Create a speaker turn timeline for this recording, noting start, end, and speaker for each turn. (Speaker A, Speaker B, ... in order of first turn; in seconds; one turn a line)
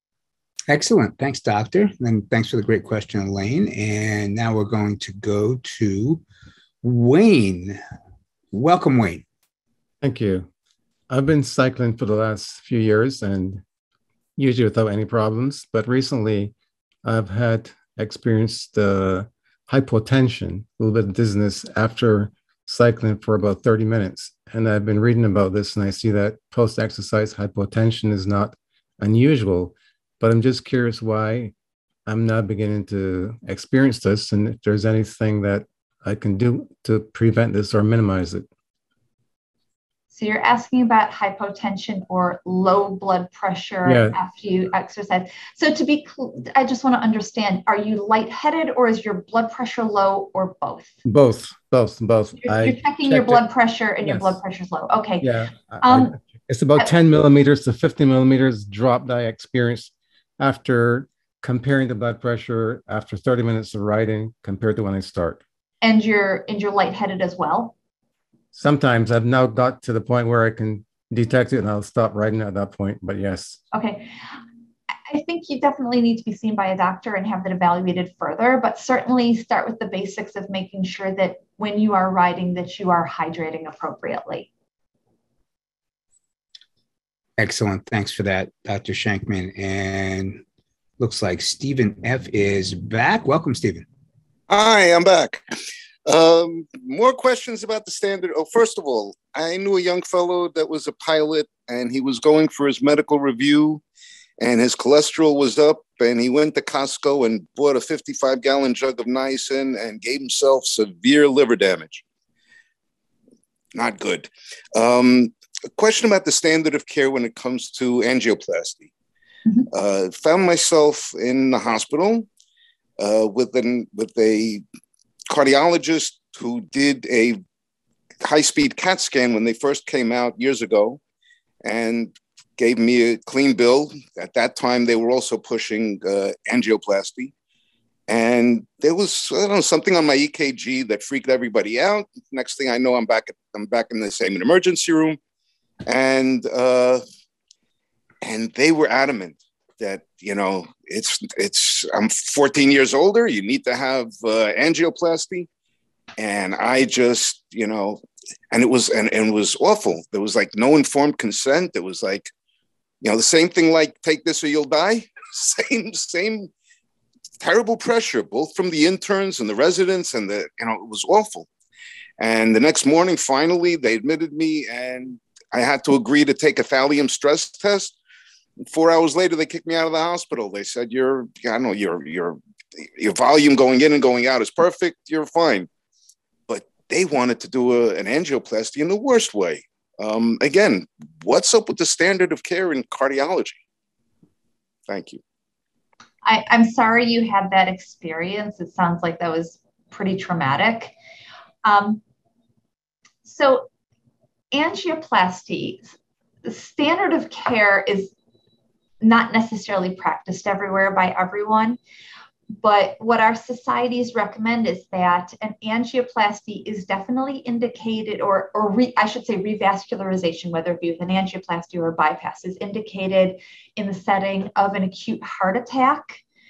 Speaker A: 0.7-6.2
Speaker A: 6.8-7.8
Speaker A: 8.5-9.2
Speaker B: 10.0-10.5
Speaker B: 11.1-13.6
Speaker B: 14.4-31.5
Speaker B: 32.1-38.4
Speaker C: 40.1-51.0
Speaker B: 43.8-44.1
Speaker B: 51.0-53.4
Speaker C: 52.4-55.3
Speaker B: 54.0-54.4
Speaker B: 55.2-65.4
Speaker C: 55.8-56.1
Speaker C: 65.8-67.7
Speaker B: 68.5-73.6
Speaker C: 73.7-74.1
Speaker C: 75.1-84.5
Speaker A: 87.4-90.4
Speaker A: 91.0-93.8
Speaker D: 94.5-95.4
Speaker D: 96.0-103.8
Speaker D: 104.4-112.0
Speaker D: 113.7-118.9
Speaker D: 119.7-122.3
Speaker D: 123.0-124.6
Speaker D: 125.3-127.4
Speaker D: 128.2-131.0
Speaker D: 131.6-137.3
Speaker D: 138.1-145.2
Speaker D: 145.9-147.0
Speaker D: 148.2-155.5
Speaker D: 156.2-162.3
Speaker D: 163.0-166.5
Speaker D: 167.4-171.5
Speaker D: 172.2-177.9
Speaker D: 178.7-182.4
Speaker D: 183.0-185.7
Speaker D: 186.5-193.6
Speaker D: 194.9-195.2
Speaker C: 196.2-200.9
Speaker C: 201.6-202.0
Speaker C: 203.2-203.6
Speaker C: 204.5-208.1
Speaker C: 209.0-211.8
Speaker C: 212.6-226.2